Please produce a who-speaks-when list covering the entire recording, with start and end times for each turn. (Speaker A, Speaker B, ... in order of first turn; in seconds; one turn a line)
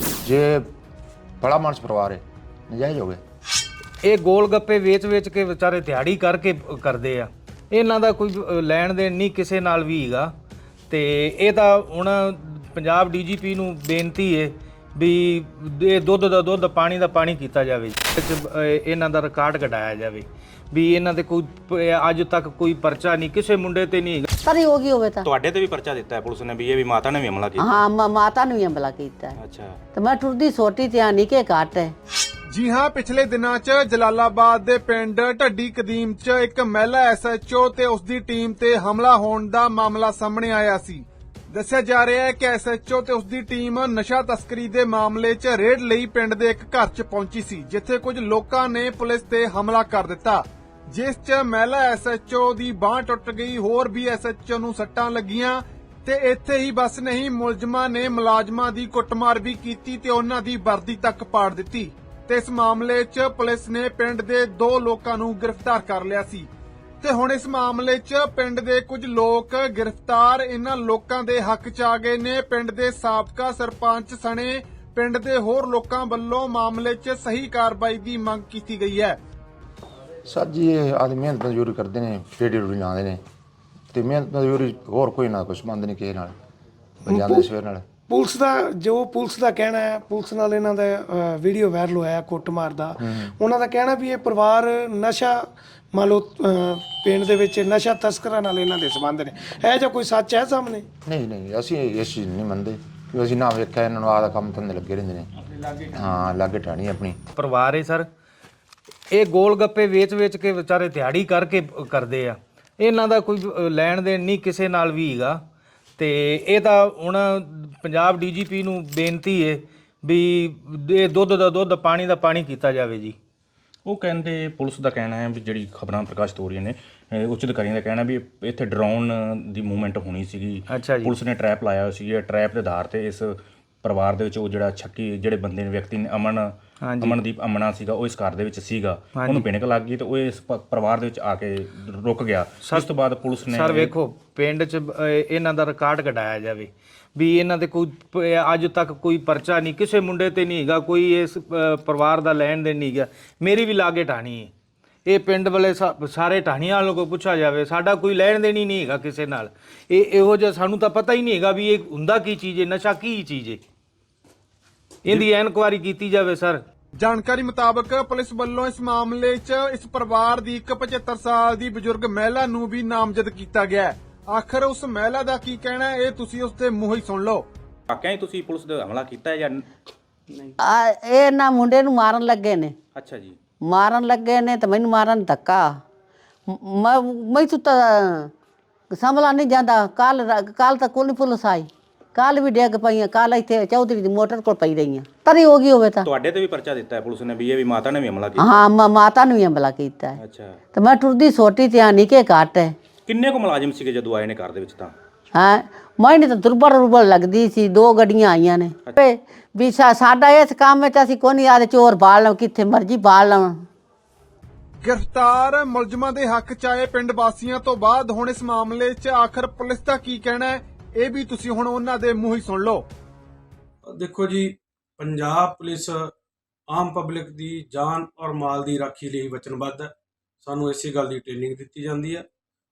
Speaker A: 0.2-0.7
Speaker A: 1.4-3.2
Speaker B: 4.0-10.3
Speaker B: 10.9-24.3
Speaker C: 24.4-25.2
Speaker D: 25.2-27.8
Speaker C: 27.6-29.4
Speaker D: 29.4-29.8
Speaker C: 29.9-31.9
Speaker E: 32.5-66.5
Speaker E: 67.0-79.2
Speaker A: 80.3-83.2
Speaker A: 83.9-86.3
Speaker A: 87.0-87.8
Speaker F: 87.1-87.5
Speaker F: 88.1-100.9
Speaker A: 93.0-93.3
Speaker A: 101.1-107.2
Speaker B: 107.3-108.1
Speaker B: 109.1-115.4
Speaker B: 116.0-123.2
Speaker D: 123.8-143.9
Speaker B: 130.7-131.1
Speaker B: 136.8-137.2
Speaker B: 139.2-139.5
Speaker B: 143.5-154.5
Speaker B: 155.1-163.6
Speaker B: 165.0-166.6
Speaker E: 167.0-177.5
Speaker D: 177.9-179.7
Speaker C: 180.6-182.8
Speaker D: 182.9-183.4
Speaker C: 183.7-185.8
Speaker C: 186.5-188.3
Speaker C: 188.9-196.1
Speaker D: 196.0-198.6
Speaker C: 198.4-200.2
Speaker D: 200.2-200.6
Speaker C: 200.8-202.7
Speaker D: 203.1-204.9
Speaker C: 205.3-213.7
Speaker E: 214.8-222.9
Speaker G: 223.9-226.1
Speaker G: 226.7-232.2